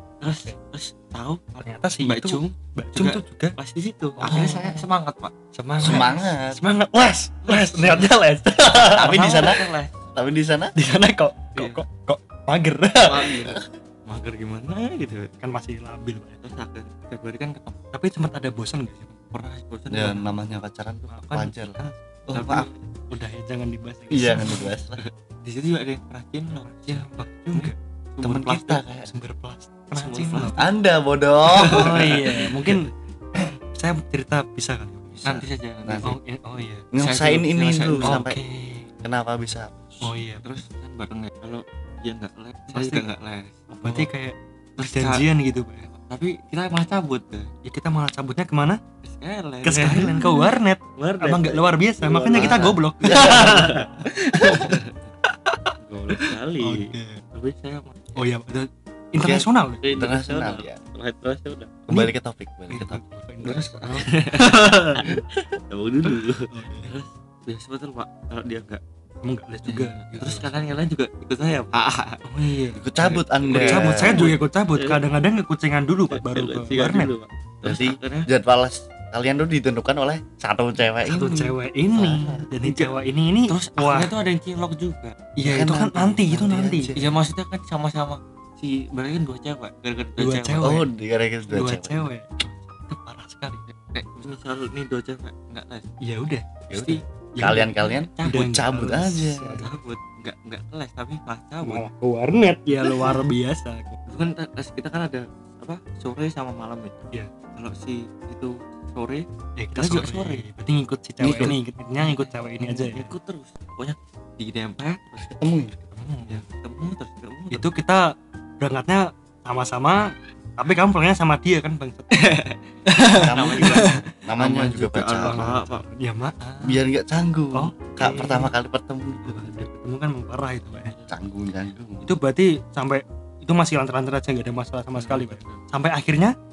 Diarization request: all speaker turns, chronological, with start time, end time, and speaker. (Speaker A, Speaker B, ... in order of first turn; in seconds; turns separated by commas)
Speaker A: 0.2-6.2, Speaker B: 1.6-3.5, Speaker B: 4.2-4.6, Speaker C: 4.2-4.8, Speaker B: 5.5-9.5, Speaker C: 5.8-6.6, Speaker A: 7.4-8.1, Speaker C: 8.8-9.6, Speaker A: 8.8-9.9, Speaker C: 10.1-10.7, Speaker B: 10.8-13.5, Speaker A: 11.6-11.8, Speaker A: 13.0-15.3, Speaker B: 15.4-16.4, Speaker A: 16.4-17.8, Speaker B: 17.9-19.1, Speaker A: 19.3-20.2, Speaker C: 19.9-21.8, Speaker B: 21.1-21.9, Speaker C: 22.3-22.7, Speaker A: 22.3-22.9, Speaker B: 23.1-24.7, Speaker C: 24.1-25.0, Speaker A: 25.0-28.8, Speaker B: 26.9-27.8, Speaker C: 28.2-29.1, Speaker B: 29.1-30.6, Speaker A: 29.9-30.6, Speaker C: 30.6-32.2, Speaker A: 31.5-32.4, Speaker B: 31.7-32.9, Speaker B: 33.7-35.5, Speaker A: 35.2-36.1, Speaker C: 35.9-36.1, Speaker B: 36.0-36.9, Speaker C: 36.9-38.4, Speaker A: 37.0-38.2, Speaker B: 38.0-38.9, Speaker C: 39.0-39.8, Speaker B: 40.0-40.4, Speaker A: 40.4-44.0, Speaker B: 42.7-43.0, Speaker B: 43.8-45.9, Speaker A: 44.8-45.2, Speaker A: 45.9-47.5, Speaker B: 47.6-48.8, Speaker A: 49.0-55.0, Speaker B: 49.6-57.2, Speaker C: 52.3-53.7, Speaker A: 55.8-58.0, Speaker B: 58.1-59.9, Speaker C: 59.2-60.8, Speaker A: 59.8-61.8, Speaker C: 61.9-63.0, Speaker B: 62.7-65.0, Speaker A: 63.4-68.8, Speaker B: 66.0-66.9, Speaker B: 69.2-70.7, Speaker A: 69.7-72.2, Speaker B: 72.2-77.1, Speaker C: 72.7-74.3, Speaker A: 73.4-75.0, Speaker A: 76.1-78.3, Speaker C: 77.6-82.5, Speaker B: 81.0-84.1, Speaker A: 82.6-85.2, Speaker B: 85.3-87.0, Speaker C: 85.4-87.0, Speaker A: 87.0-90.8, Speaker B: 90.2-90.8, Speaker C: 90.6-92.1, Speaker B: 91.5-93.6, Speaker A: 93.9-95.9, Speaker B: 96.0-99.7, Speaker A: 96.7-97.0, Speaker C: 96.7-99.6, Speaker A: 97.8-98.5, Speaker A: 99.6-101.8, Speaker B: 101.6-103.9, Speaker C: 102.8-103.2, Speaker A: 104.1-107.0, Speaker A: 107.5-110.4, Speaker B: 109.6-113.1, Speaker C: 111.2-111.5, Speaker A: 111.3-115.3, Speaker C: 115.2-115.7, Speaker B: 115.9-116.4, Speaker A: 116.1-117.7, Speaker B: 117.5-122.1, Speaker A: 122.1-125.8, Speaker B: 122.9-124.0, Speaker C: 123.1-125.5, Speaker B: 125.2-126.4, Speaker A: 126.4-126.7, Speaker C: 126.6-129.6, Speaker B: 127.5-128.5, Speaker B: 129.2-130.9, Speaker A: 130.7-131.1, Speaker C: 131.1-132.1, Speaker B: 132.0-136.3, Speaker A: 134.9-135.6